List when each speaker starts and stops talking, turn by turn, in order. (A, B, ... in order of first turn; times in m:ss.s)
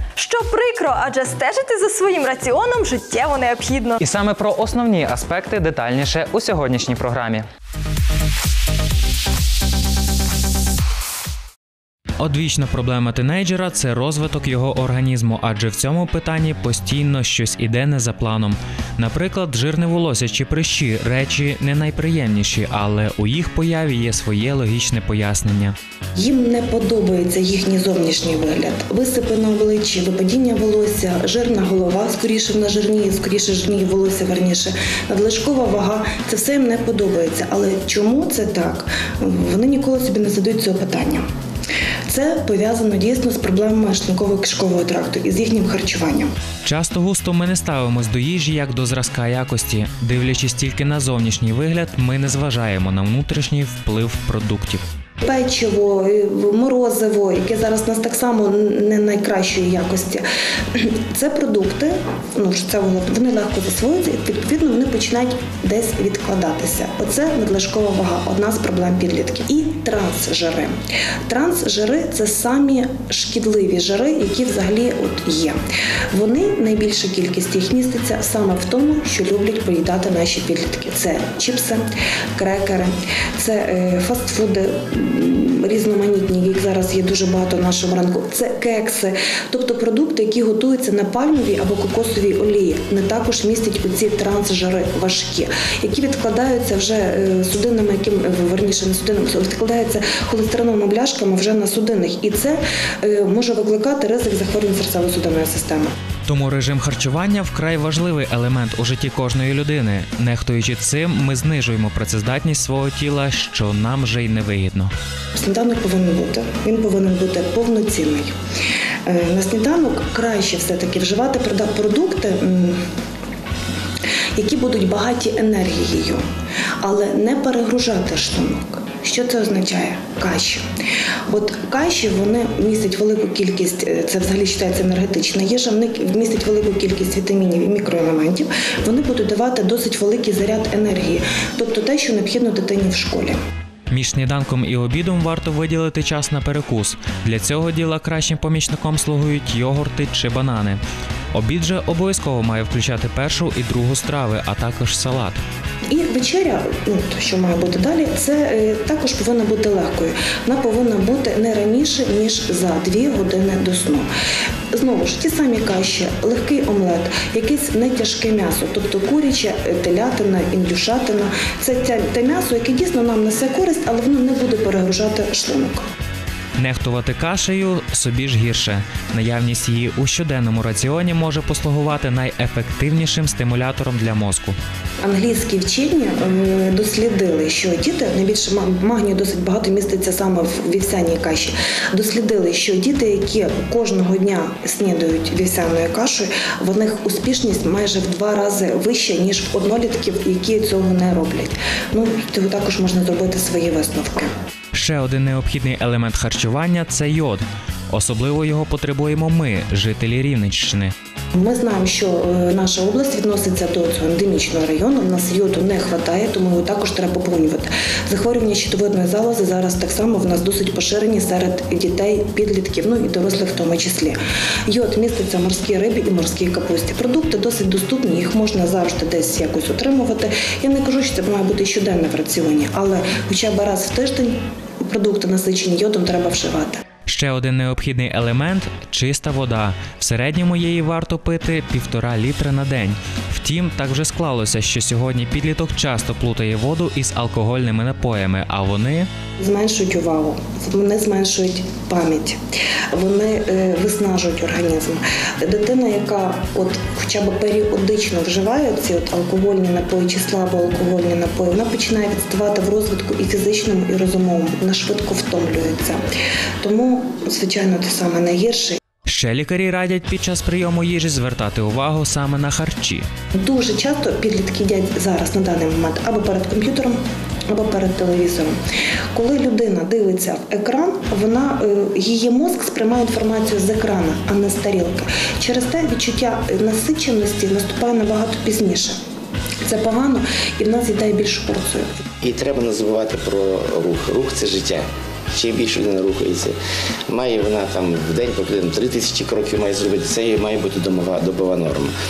0:00.2-0:04.0 A
0:04.0-0:07.4 B
0:12.2-0:25.7 C
0:26.2-0:41.2 D
0:42.1-0:46.3 D
0:46.6-0:54.8 C
0:55.2-1:15.6 D
1:16.1-1:21.8 D
1:22.4-1:45.9 D
1:46.3-1:54.9 C
1:55.3-1:58.3 D
1:59.0-2:02.8 D
2:04.4-2:06.2 D
2:06.8-2:10.6 D
2:11.3-2:23.4 D
2:23.9-2:30.8 C
2:31.3-2:35.4 C
2:35.9-2:44.1 D
2:44.7-2:55.8 D
2:56.6-3:04.6 C
3:05.0-3:24.3 D
3:24.7-3:30.9 C
3:31.3-3:56.8 D
3:57.0-4:09.1 C
4:09.4-4:12.4 D
4:12.9-4:26.0 D
4:26.6-4:28.8 D
4:29.0-4:33.1 C
4:33.4-4:38.6 D
4:39.1-4:49.0 D
4:49.6-4:51.9 D
4:52.2-4:56.6 E
4:57.1-5:01.9 E